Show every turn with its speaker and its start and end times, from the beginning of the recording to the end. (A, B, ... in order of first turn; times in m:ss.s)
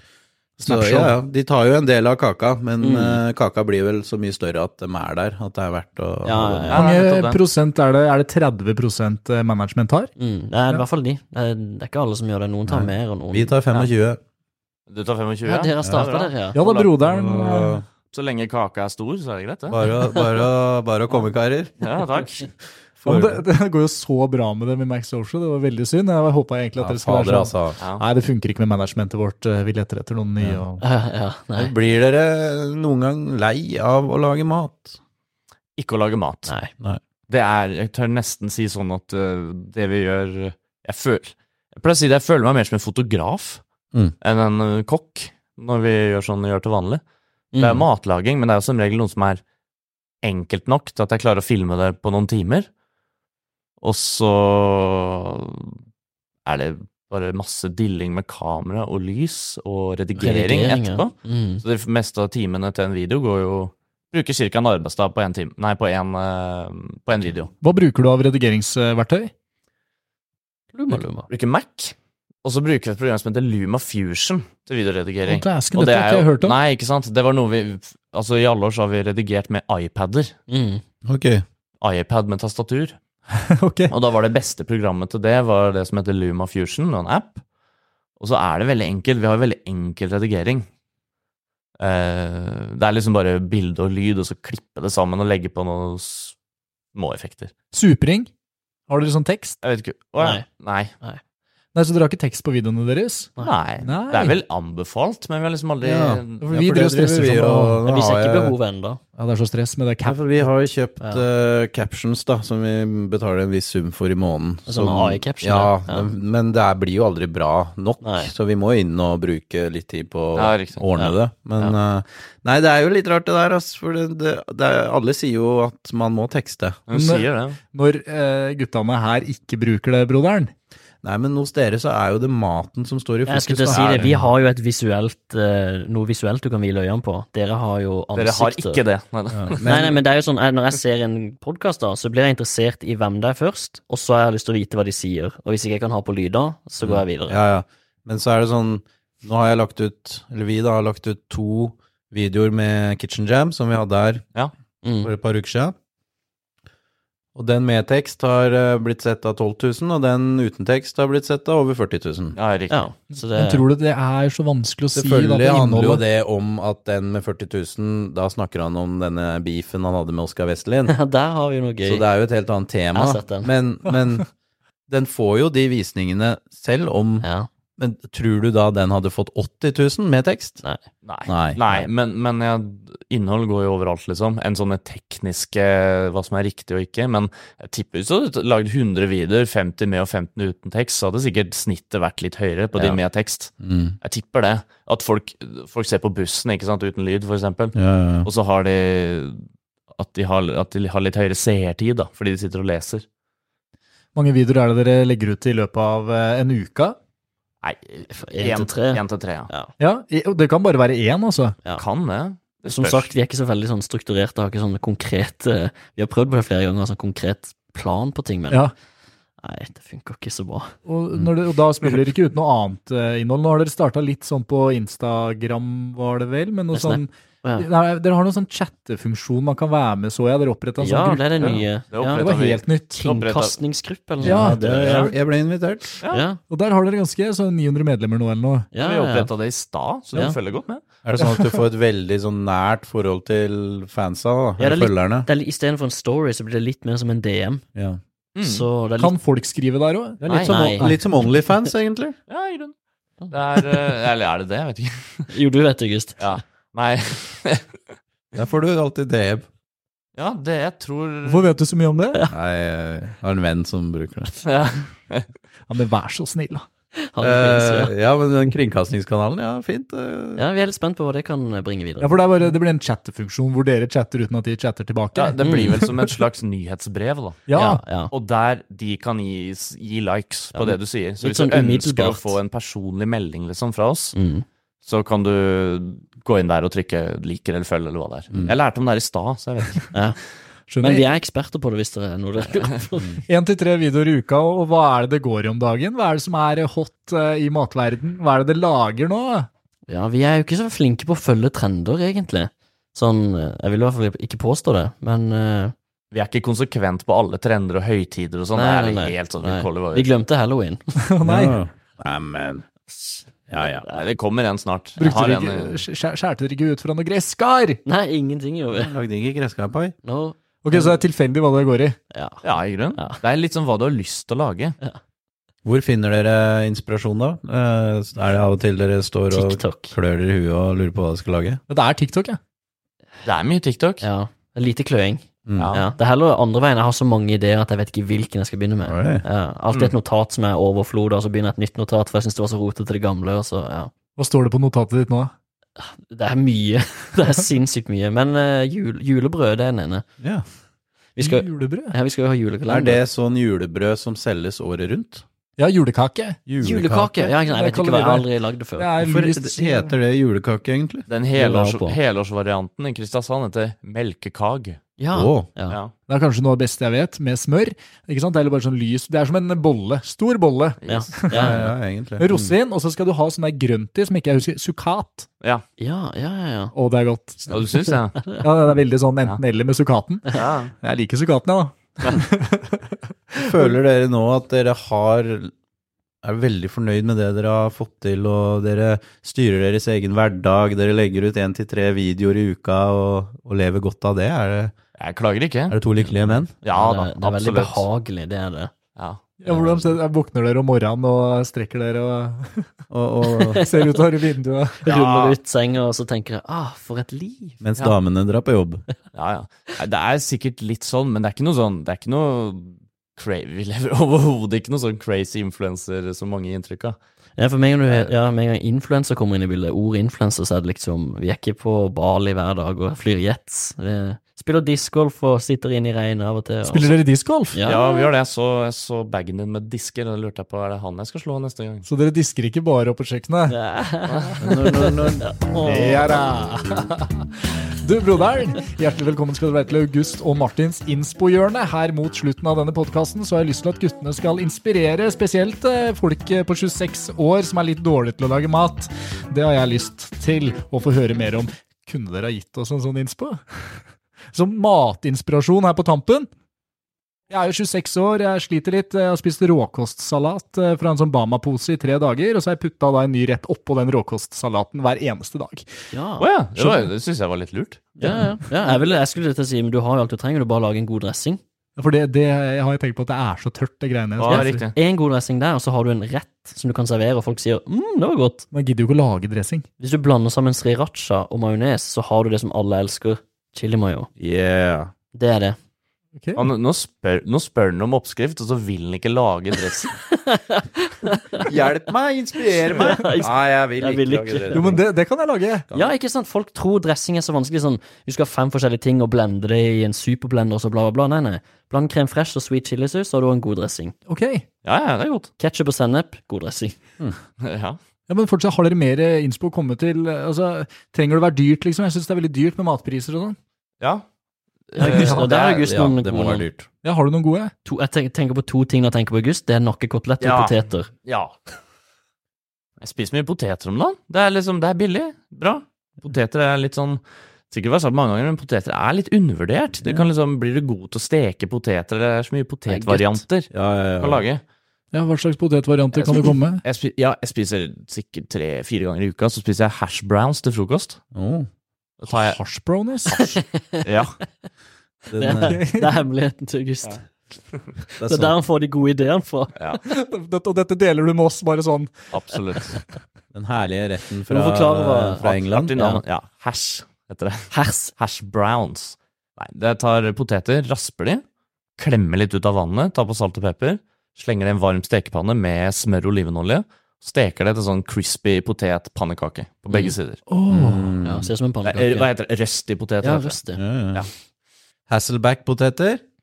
0:00.6-0:06.8 A
0:00.6-0:01.1 B
0:02.8-0:03.2 C
0:06.2-0:06.8 C
0:06.7-0:07.4 D
0:06.7-0:10.1 B
0:10.2-0:13.6 C
0:12.7-0:14.2 A
0:14.9-0:17.0 D
0:15.4-0:16.6 C
0:16.5-0:17.8 B
0:17.0-0:17.8 A
0:18.1-0:19.8 D
0:19.7-0:21.7 A
0:21.8-0:22.5 D
0:23.0-0:23.4 A
0:23.0-0:30.8 B
0:26.8-0:27.8 A
0:27.8-0:28.0 D
0:30.8-0:31.7 C
0:31.6-0:35.0 A
0:35.8-0:36.5 D
0:37.3-0:43.6 D
0:44.2-0:47.0 D
0:47.5-0:47.9 C
0:47.6-0:49.4 D
0:50.2-0:52.7 D
0:53.8-0:55.8 D
0:56.4-1:07.5 D
1:00.2-1:01.6 C
1:07.6-1:09.3 B
1:10.7-1:11.3 C
1:11.3-1:20.3 D
1:15.2-1:16.6 B
1:20.5-1:20.8 C
1:21.0-1:21.4 A
1:21.8-1:23.0 D
1:23.5-1:23.9 B
1:23.9-1:27.4 D
1:28.2-1:30.7 D
1:31.8-1:36.3 D
1:36.9-1:37.5 D
1:37.7-1:38.3 B
1:38.9-1:39.6 B
1:39.6-1:40.9 D
1:40.2-1:40.4 C
1:41.7-1:44.4 B
1:43.4-1:46.4 D
1:45.8-1:48.5 A
1:46.4-1:47.8 B
1:47.8-1:49.0 C
1:49.2-1:50.2 B
1:50.0-2:06.8 A
1:54.7-1:56.1 C
1:58.0-1:58.3 C
2:00.4-2:00.8 D
2:01.0-2:01.8 C
2:06.9-2:07.6 D
2:06.9-2:10.5 B
2:11.0-2:14.3 A
2:13.3-2:18.8 C
2:13.7-2:14.0 D
2:18.2-2:19.6 D
2:19.3-2:20.0 A
2:19.6-2:27.4 C
2:26.8-2:34.2 A
2:34.8-2:35.1 C
2:35.0-2:35.7 A
2:37.3-2:42.4 A
2:42.3-2:42.8 D
2:42.7-2:43.6 C
2:43.1-2:46.0 B
2:44.9-2:50.9 A
2:50.9-2:52.0 C
2:51.8-2:54.3 A
2:52.9-2:53.5 C
2:54.9-2:57.2 A
2:57.2-2:57.5 C
2:57.8-3:00.6 A
3:01.0-3:19.4 D
3:01.3-3:01.8 A
3:13.6-3:14.0 A
3:17.7-3:18.3 A
3:19.9-3:23.0 D
3:24.1-3:27.0 B
3:27.6-3:29.5 D
3:28.1-3:29.7 C
3:29.8-3:31.6 B
3:31.8-3:33.1 D
3:32.7-3:38.7 C
3:39.4-3:40.7 C
3:40.8-3:51.6 B
3:46.7-3:47.7 C
3:50.8-3:52.3 C
3:51.4-3:53.5 D
3:52.2-3:53.0 B
3:53.0-3:55.1 C
3:54.2-3:56.0 A
3:54.2-3:55.1 B
3:56.1-3:56.4 C
3:56.5-3:58.7 B
3:58.7-3:59.3 C
3:58.8-4:00.8 D
4:01.0-4:05.3 A
4:01.2-4:01.6 B
4:04.6-4:07.6 C
4:07.7-4:08.0 A
4:08.3-4:08.7 D
4:08.4-4:09.1 C
4:09.0-4:10.2 B
4:10.2-4:12.1 A
4:10.2-4:10.5 D
4:10.4-4:11.0 C
4:12.3-4:12.7 D
4:13.3-4:15.3 D
4:15.3-4:16.2 C
4:16.2-4:17.8 D
4:18.3-4:19.5 A
4:20.1-4:21.5 D
4:21.2-4:22.2 B
4:22.3-4:24.4 A
4:24.4-4:25.3 D
4:25.7-4:26.6 B
4:27.0-4:27.9 C
4:27.2-4:30.4 A
4:30.4-4:32.2 C
4:32.0-4:36.1 B
4:35.1-4:37.4 D
4:35.4-4:35.8 C
4:37.5-4:37.8 B
4:37.5-4:38.1 C
4:38.1-4:44.2 D
4:40.5-4:42.4 C
4:44.1-4:44.4 C
4:44.8-4:49.9 D
4:49.9-4:50.2 C
4:50.7-4:51.0 B
4:50.8-4:53.1 C
4:53.3-4:59.5 B
4:59.9-5:05.7 C
5:06.1-5:10.1 D
5:08.5-5:11.0 C
5:11.0-5:11.6 B
5:11.2-5:12.6 A
5:13.5-5:13.9 A
5:13.8-5:15.8 D
5:15.0-5:17.8 B
5:17.8-5:18.9 C
5:18.7-5:19.9 A
5:20.0-5:21.0 C
5:20.6-5:22.0 B
5:22.1-5:22.4 C
5:22.4-5:24.8 D
5:25.6-5:31.6 A
5:29.3-5:29.9 C
5:31.7-5:32.4 B
5:33.2-5:34.0 D
5:34.0-5:43.9 C
5:35.4-5:35.7 A
5:35.6-5:35.9 D
5:38.8-5:39.2 A
5:44.2-5:45.3 B
5:45.8-5:50.0 C
5:51.2-5:53.0 C
5:51.2-5:52.0 B
5:52.7-5:55.2 A
5:55.6-5:56.4 B
5:56.5-5:57.3 A
5:56.6-5:58.9 C
5:57.3-6:00.0 B
5:59.0-6:01.0 A
6:01.1-6:04.8 D
6:01.3-6:02.0 C
6:05.0-6:05.8 C
6:05.1-6:05.5 A
6:06.1-6:15.3 B
6:10.8-6:11.1 D
6:10.9-6:11.7 C
6:11.3-6:12.5 A
6:15.8-6:16.7 C
6:16.7-6:17.7 B
6:17.5-6:18.2 D
6:18.4-6:23.8 B
6:20.3-6:20.7 D
6:23.4-6:25.5 A
6:26.2-6:34.7 A
6:35.0-6:35.8 D
6:35.7-6:36.5 A
6:36.6-6:37.8 D
6:36.7-6:38.7 C
6:39.0-6:39.2 D
6:39.4-6:42.8 B
6:39.5-6:39.8 A
6:42.9-6:43.6 A
6:43.4-6:43.9 C
6:43.5-6:44.8 B
6:44.8-6:47.6 C
6:44.9-6:45.4 D
6:47.6-6:48.8 A
6:49.1-6:57.0 D
6:57.4-7:06.9 C
6:57.9-6:58.1 D
7:06.6-7:07.6 B
7:07.5-7:08.1 C
7:07.6-7:11.8 D
7:11.8-7:13.6 B
7:13.5-7:16.4 C
7:14.1-7:14.4 D
7:14.4-7:15.3 A
7:15.6-7:17.1 B
7:17.8-7:33.4 B
7:34.3-7:36.3 B
7:37.3-7:45.7 B
7:45.9-7:46.3 C
7:46.2-7:47.9 D
7:46.6-7:46.9 B
7:48.0-7:48.3 A
7:48.0-7:51.4 C
7:51.8-7:54.7 B
7:54.2-7:54.7 D
7:54.3-7:58.5 C
7:58.5-7:59.6 B
7:59.8-8:04.1 C
8:04.2-8:04.9 A
8:05.1-8:05.6 C
8:06.2-8:06.4 B
8:06.4-8:10.0 D
8:10.1-8:11.5 C
8:11.4-8:14.8 A
8:12.7-8:14.8 C
8:14.5-8:15.6 B
8:15.7-8:23.9 C
8:24.1-8:24.4 B
8:24.6-8:25.3 D
8:25.4-8:26.8 C
8:27.4-8:27.8 D
8:28.1-8:33.4 B
8:34.7-8:35.6 D
8:34.8-8:36.4 C
8:34.8-8:35.3 B
8:35.3-8:36.7 A
8:36.8-8:37.5 B
8:37.6-8:40.9 C
8:40.2-8:41.3 D
8:42.8-8:54.4 D
8:52.7-8:53.2 C
8:53.5-8:54.2 A
8:54.9-8:56.6 B
8:56.0-9:01.0 D
9:01.1-9:01.5 A
9:02.0-9:02.4 D
9:02.1-9:03.2 B
9:03.1-9:04.2 D
9:03.1-9:03.8 C
9:05.1-9:05.6 A
9:05.2-9:07.0 C
9:05.4-9:06.0 B
9:08.0-9:08.3 A
9:08.0-9:09.8 C
9:09.8-9:12.1 B
9:12.1-9:12.8 D
9:13.3-9:15.7 A
9:14.3-9:16.0 C
9:15.2-9:21.2 D
9:17.5-9:17.9 C
9:21.8-9:30.2 D
9:30.3-9:31.0 B
9:30.5-9:31.3 A
9:31.0-9:32.1 C
9:31.6-9:33.4 D
9:33.0-9:33.6 C
9:33.5-9:34.1 A
9:34.9-9:36.0 A